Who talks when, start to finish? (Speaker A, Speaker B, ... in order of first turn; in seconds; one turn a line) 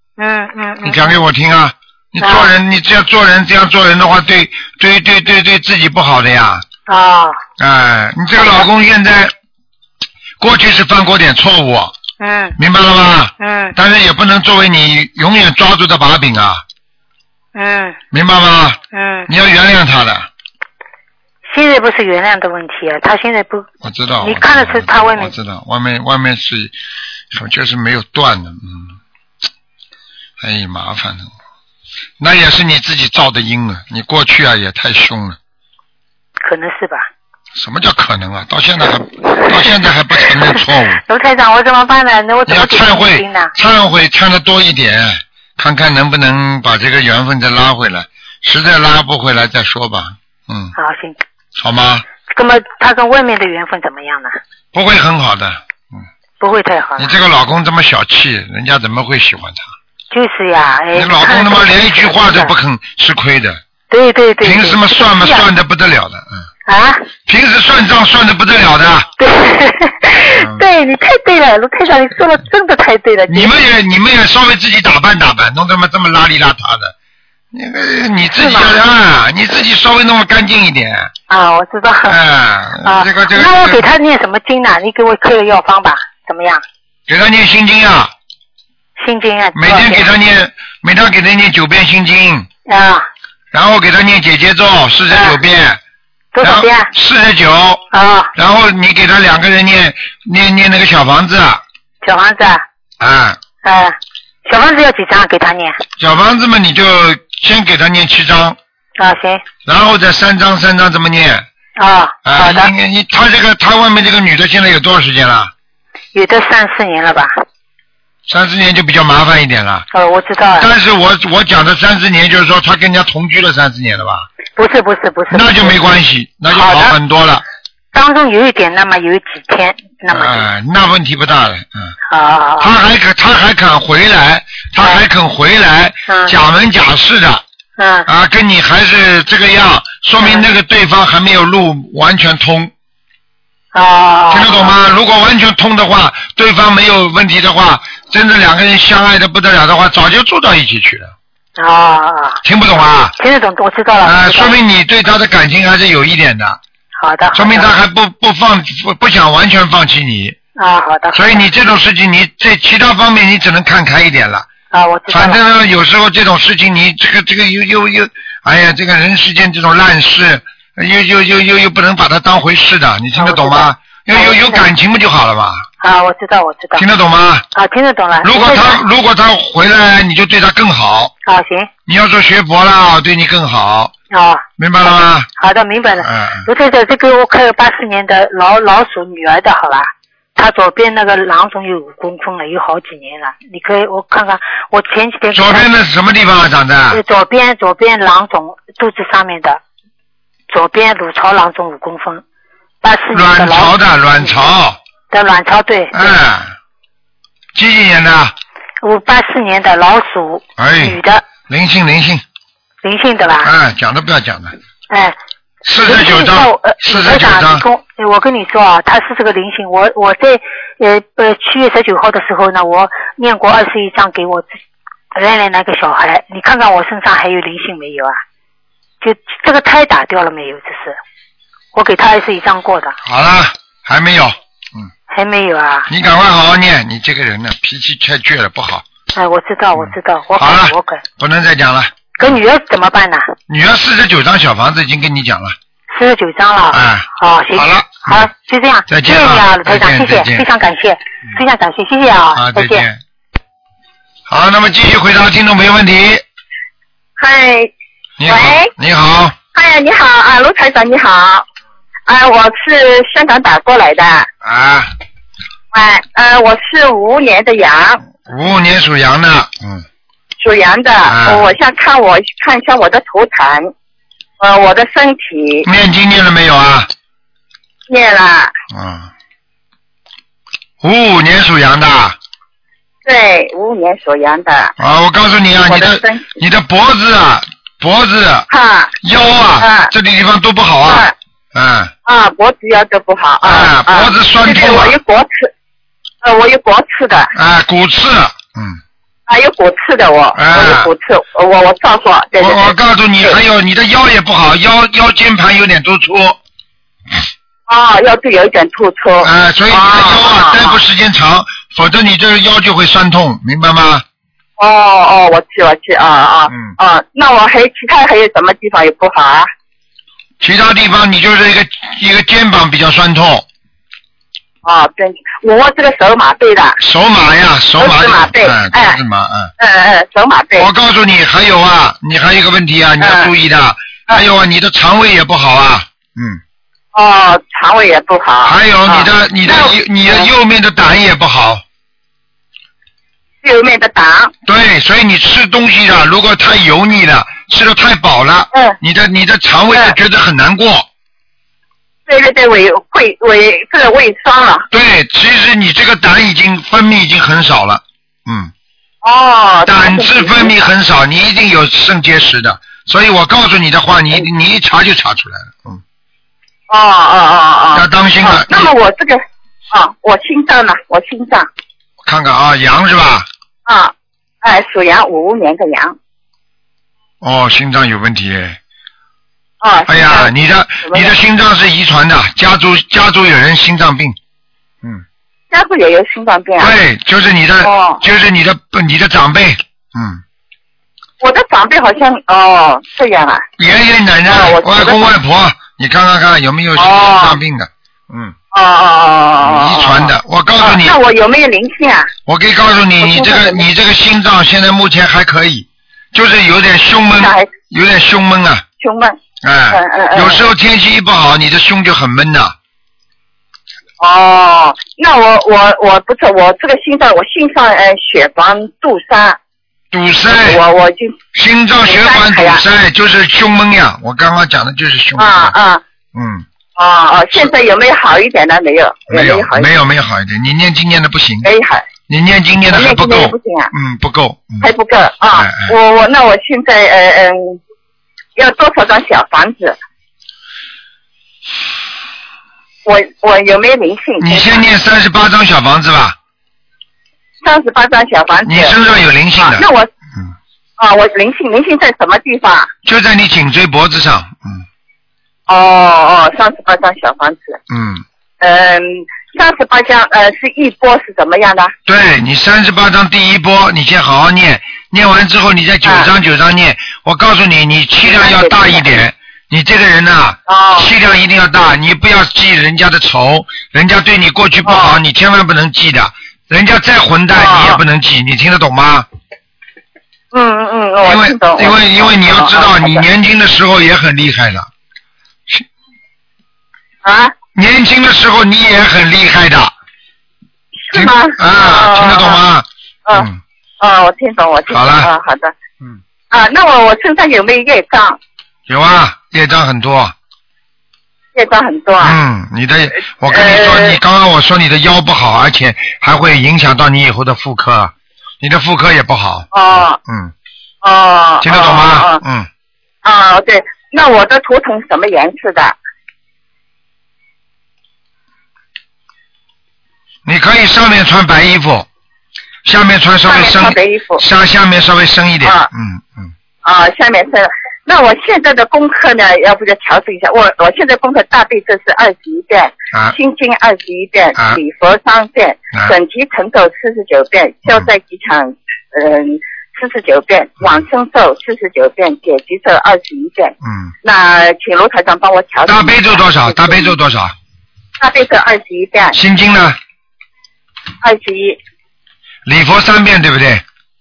Speaker A: 0.2-1.2
Speaker B: 0.8-6.7
Speaker A: 2.2-2.5
Speaker A: 6.9-7.4
Speaker B: 7.6-9.3
Speaker B: 10.4-11.9
Speaker A: 12.2-12.6
Speaker B: 12.6-16.6
Speaker A: 13.4-13.8
Speaker A: 17.6-18.0
Speaker B: 18.1-20.3
Speaker A: 18.9-19.3
Speaker A: 21.5-23.7
Speaker B: 23.8-26.7
Speaker A: 24.2-25.3
Speaker B: 27.3-29.0
Speaker B: 30.4-31.3
Speaker B: 32.2-35.4
Speaker A: 36.4-37.1
Speaker B: 37.6-41.0
Speaker A: 39.4-43.5
Speaker B: 42.5-50.7
Speaker A: 50.8-51.2
Speaker B: 51.6-52.0
Speaker A: 52.3-54.4
Speaker B: 54.7-56.0
Speaker A: 56.4-57.1
Speaker B: 57.0-59.6
Speaker A: 60.1-62.5
Speaker B: 60.9-63.6
Speaker A: 63.9-65.5
Speaker B: 64.4-66.4
Speaker A: 66.7-67.1
Speaker B: 67.3-69.1
Speaker A: 69.2-73.6
Speaker B: 70.4-70.6
Speaker B: 73.3-76.9
Speaker B: 77.5-81.1
Speaker A: 78.4-78.8
Speaker A: 81.3-82.2
Speaker B: 82.1-83.8
Speaker A: 82.8-86.6
Speaker B: 87.1-88.1
Speaker A: 89.0-90.1
Speaker B: 89.5-92.5
Speaker A: 92.7-93.1
Speaker B: 93.5-95.8
Speaker A: 95.1-95.4
Speaker A: 96.3-96.9
Speaker B: 96.4-97.8
Speaker A: 97.9-98.3
Speaker B: 98.3-101.6
Speaker A: 102.0-102.7
Speaker B: 103.0-103.4
Speaker A: 103.6-105.8
Speaker B: 106.0-108.6
Speaker A: 109.0-109.4
Speaker B: 109.7-111.5
Speaker A: 111.8-112.7
Speaker B: 112.2-115.5
Speaker A: 116.1-117.3
Speaker B: 118.3-119.8
Speaker A: 119.9-120.7
Speaker B: 120.6-124.3
Speaker A: 124.6-125.8
Speaker B: 125.3-127.4
Speaker A: 126.5-127.0
Speaker A: 127.9-130.5
Speaker B: 130.1-131.9
Speaker A: 132.1-132.7
Speaker B: 132.6-137.4
Speaker A: 136.1-136.3
Speaker A: 137.8-138.1
Speaker B: 138.1-142.7
Speaker A: 140.2-140.5
Speaker A: 143.7-144.8
Speaker B: 144.3-151.1
Speaker A: 151.6-152.4
Speaker B: 152.4-153.1
Speaker A: 153.2-154.6
Speaker B: 154.1-156.6
Speaker A: 157.0-157.7
Speaker B: 157.3-160.4
Speaker A: 160.6-161.4
Speaker B: 161.1-164.5
Speaker A: 164.7-165.4
Speaker B: 165.1-175.7
Speaker A: 173.2-174.7
Speaker A: 175.8-176.8
Speaker B: 176.8-177.4
Speaker A: 177.6-178.8
Speaker B: 178.2-181.1
Speaker A: 181.2-181.7
Speaker B: 181.9-183.9
Speaker A: 184.1-184.4
Speaker B: 184.6-185.3
Speaker A: 185.4-195.7
Speaker B: 186.0-186.5
Speaker B: 195.3-197.0
Speaker A: 196.9-199.6
Speaker A: 200.5-202.2
Speaker A: 202.8-204.4
Speaker B: 203.1-204.8
Speaker A: 205.1-206.1
Speaker B: 205.9-206.6
Speaker B: 207.6-208.3
Speaker A: 208.8-211.3
Speaker B: 210.6-212.2
Speaker A: 212.8-213.5
Speaker B: 213.4-214.6
Speaker A: 214.9-215.2
Speaker B: 215.6-217.7
Speaker A: 215.8-224.6
Speaker A: 225.1-228.2
Speaker A: 229.0-231.0
Speaker A: 231.7-233.0
Speaker B: 233.0-234.9
Speaker A: 235.1-235.9
Speaker B: 235.9-238.8
Speaker A: 239.1-241.0
Speaker B: 239.8-242.4
Speaker A: 242.2-243.3
Speaker B: 243.5-245.6
Speaker A: 245.9-252.9
Speaker B: 246.7-248.3
Speaker B: 248.9-250.5
Speaker B: 252.3-253.0
Speaker B: 254.3-256.2
Speaker C: 257.2-257.7
Speaker B: 258.2-259.4
Speaker C: 258.3-258.7
Speaker C: 259.5-261.4
Speaker C: 262.1-264.3
Speaker B: 264.4-264.9
Speaker C: 265.7-268.0
Speaker B: 268.2-269.9
Speaker C: 270.4-273.7
Speaker B: 271.1-271.5
Speaker C: 274.4-275.7
Speaker B: 275.6-276.9
Speaker C: 277.9-278.5
Speaker B: 278.7-279.1
Speaker B: 280.8-282.2
Speaker C: 283.1-284.7
Speaker B: 284.8-288.5
Speaker C: 285.7-286.4
Speaker C: 288.5-288.9
Speaker B: 289.0-291.9
Speaker C: 289.6-289.9
Speaker C: 290.9-291.1
Speaker C: 292.1-295.5
Speaker B: 293.4-295.0
Speaker C: 296.2-297.3
Speaker B: 297.3-298.8
Speaker C: 299.3-303.4
Speaker B: 300.4-300.9
Speaker B: 302.4-306.4
Speaker C: 307.7-310.8
Speaker B: 309.2-314.0
Speaker C: 314.6-319.5
Speaker B: 316.5-316.8
Speaker B: 320.4-323.5
Speaker C: 324.6-326.8
Speaker B: 326.8-329.5
Speaker C: 327.8-329.0
Speaker C: 329.6-330.7
Speaker B: 330.6-336.4
Speaker C: 333.0-333.3
Speaker C: 336.9-340.3
Speaker B: 338.4-341.6
Speaker C: 343.4-344.3
Speaker B: 344.4-350.9
Speaker C: 352.1-354.7
Speaker B: 354.7-358.5
Speaker C: 359.0-360.7
Speaker B: 359.7-365.8
Speaker C: 366.7-371.5
Speaker B: 367.7-368.7
Speaker B: 372.0-373.3
Speaker C: 373.7-376.0
Speaker B: 377.2-378.6
Speaker C: 379.6-381.1
Speaker B: 379.9-384.2
Speaker C: 385.5-386.7
Speaker B: 386.6-390.2
Speaker C: 387.6-388.0
Speaker C: 391.2-393.5
Speaker B: 393.6-398.4
Speaker C: 394.3-395.0
Speaker C: 396.8-397.4
Speaker C: 398.5-402.1
Speaker B: 399.4-401.0
Speaker B: 402.3-408.6
Speaker C: 403.0-403.6
Speaker C: 407.2-407.5
Speaker C: 408.8-409.2
Speaker B: 409.4-412.6
Speaker C: 409.7-410.5
Speaker C: 414.0-419.4
Speaker B: 419.9-420.6
Speaker C: 420.3-421.2
Speaker B: 421.3-425.6
Speaker C: 421.8-422.6
Speaker C: 425.2-425.8
Speaker B: 426.1-426.5
Speaker C: 426.8-429.7
Speaker B: 429.1-431.5
Speaker C: 431.4-431.9
Speaker B: 432.1-434.7
Speaker C: 432.7-433.7
Speaker C: 434.6-437.6
Speaker B: 435.3-435.7
Speaker C: 438.4-439.8
Speaker C: 442.9-444.6
Speaker B: 444.2-446.2
Speaker C: 447.4-448.7
Speaker B: 448.4-449.6
Speaker C: 449.4-449.9
Speaker C: 450.8-452.7
Speaker B: 452.9-454.6
Speaker C: 455.5-457.6
Speaker B: 457.7-458.1
Speaker C: 458.4-461.7
Speaker B: 461.9-479.1
Speaker C: 468.1-469.0
Speaker C: 470.5-470.9
Speaker C: 474.6-475.0
Speaker C: 477.4-477.8
Speaker C: 480.3-483.0
Speaker B: 481.0-484.7
Speaker C: 487.0-487.4
Speaker B: 487.6-489.7
Speaker C: 490.8-492.4
Speaker B: 490.9-493.4
Speaker C: 493.8-495.5
Speaker B: 494.7-495.1
Speaker C: 496.3-498.2
Speaker B: 498.7-500.1
Speaker C: 501.4-502.2
Speaker B: 502.0-509.5
Speaker C: 503.3-504.0
Speaker C: 509.5-510.0
Speaker B: 510.1-510.3
Speaker C: 510.8-512.2
Speaker B: 511.4-512.5
Speaker C: 513.0-515.8
Speaker B: 520.3-521.9
Speaker B: 522.6-526.3
Speaker C: 523.3-524.2
Speaker C: 525.4-525.7
Speaker C: 526.6-546.9
Speaker B: 543.6-543.9
Speaker B: 545.7-547.3
Speaker C: 548.0-549.2
Speaker B: 549.1-549.8
Speaker C: 551.0-551.6
Speaker B: 552.5-553.6